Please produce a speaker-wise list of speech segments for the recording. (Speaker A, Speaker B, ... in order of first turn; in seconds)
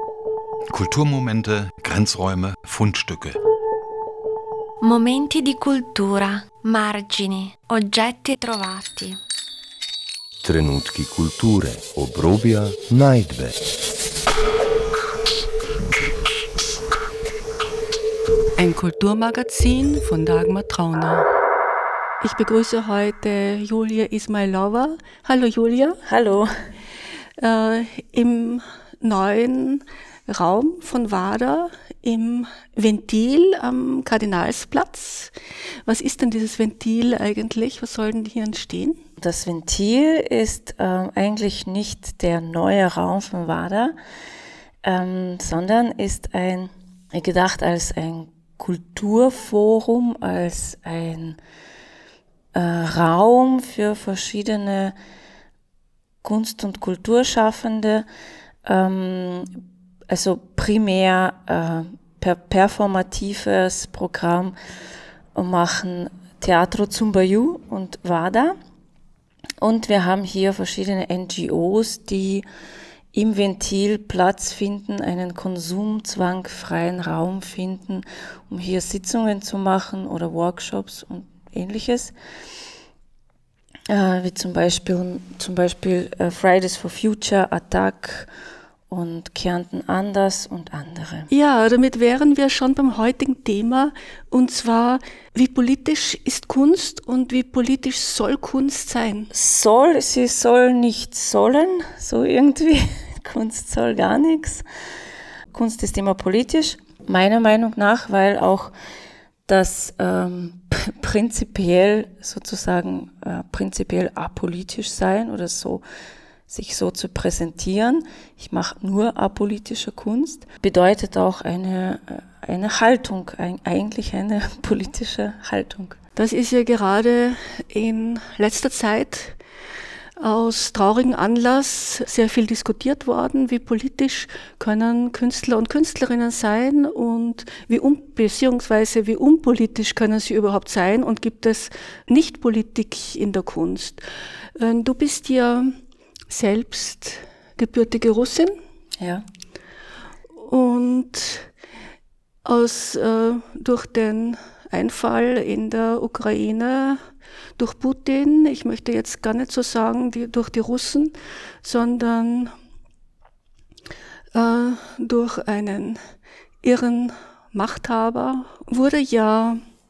Speaker A: 0.7-3.4
Speaker B: 4.8-9.2
Speaker C: 10.4-13.6
Speaker D: 18.6-21.3, 22.2-26.0, 27.4-35.3, 35.9-39.0, 91.3-99.3, 126.2-129.4, 130.2-144.0, 144.6-145.8, 146.3-148.5, 150.3-151.5, 152.4-157.0, 157.6-162.5, 164.3-166.0, 166.6-169.6
Speaker E: 26.0-26.5, 39.2-44.0, 44.8-51.4, 52.5-55.0, 56.2-58.1, 58.6-59.5, 60.1-64.6, 65.3-68.6, 69.6-72.5, 73.1-82.1, 83.9-88.3, 88.9-91.3, 99.3-104.6, 105.5-108.7, 109.5-115.8, 116.5-126.0, 149.0-149.2